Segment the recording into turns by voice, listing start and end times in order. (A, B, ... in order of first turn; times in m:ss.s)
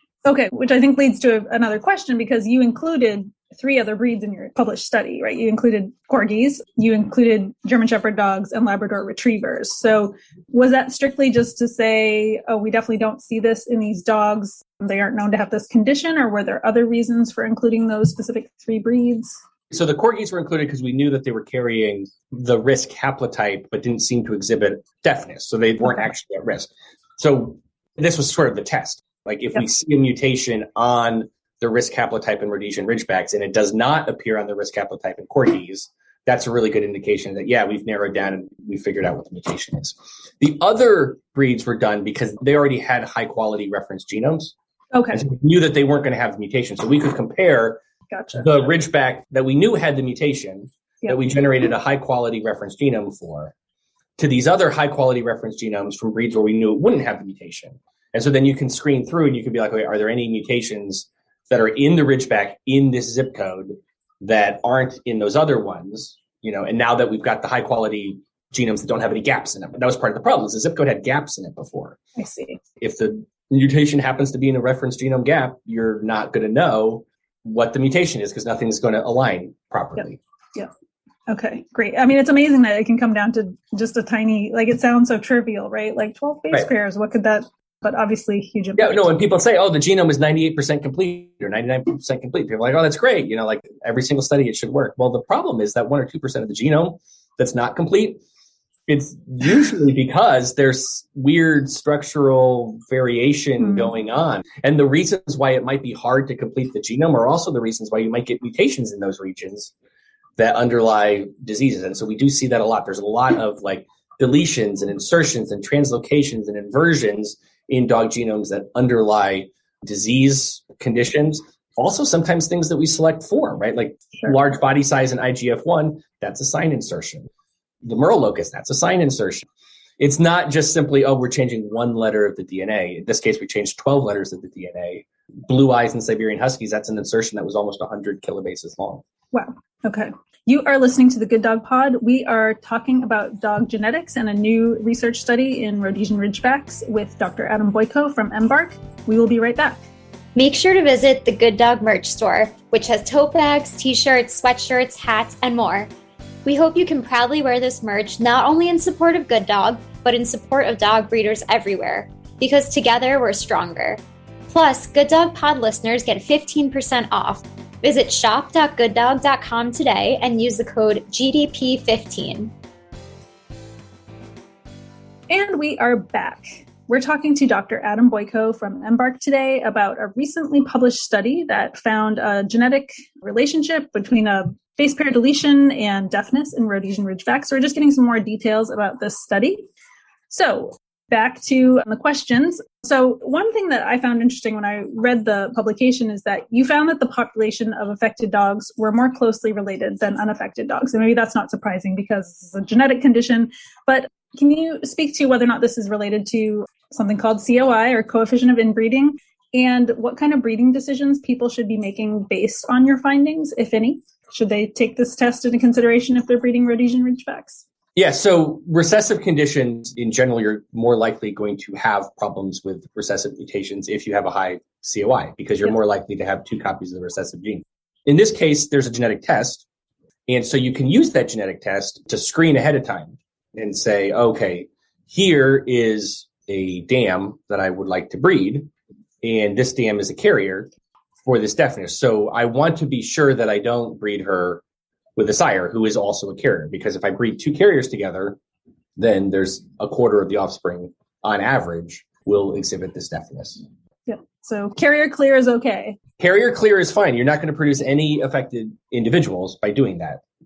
0:00.2-0:19.4 A
0:19.7-0:44.5 B
0:44.9-0:45.2 A
0:45.1-0:47.8 B
0:48.1-0:48.5 A
0:48.4-0:53.5 B
0:54.2-1:12.0 B
1:12.2-1:12.6 A
1:12.8-1:20.2 B
1:21.3-1:29.1 A
1:28.8-1:38.2 B
1:38.9-1:49.7 B
1:43.6-1:43.9 A
1:50.4-2:07.3 B
2:07.8-2:09.4 B
2:10.0-2:19.0 B
2:19.3-2:29.8 A
2:30.3-2:35.9 C
2:36.4-2:52.5 C
2:55.3-3:09.7 A
3:10.3-3:37.6 A
3:38.0-3:49.6 B
3:50.3-3:58.7 B
3:59.2-4:00.7 B
4:01.2-4:04.6 B
4:05.2-4:08.4 B
4:09.0-4:13.6 B
4:14.0-4:16.0 A
4:16.2-4:20.2 B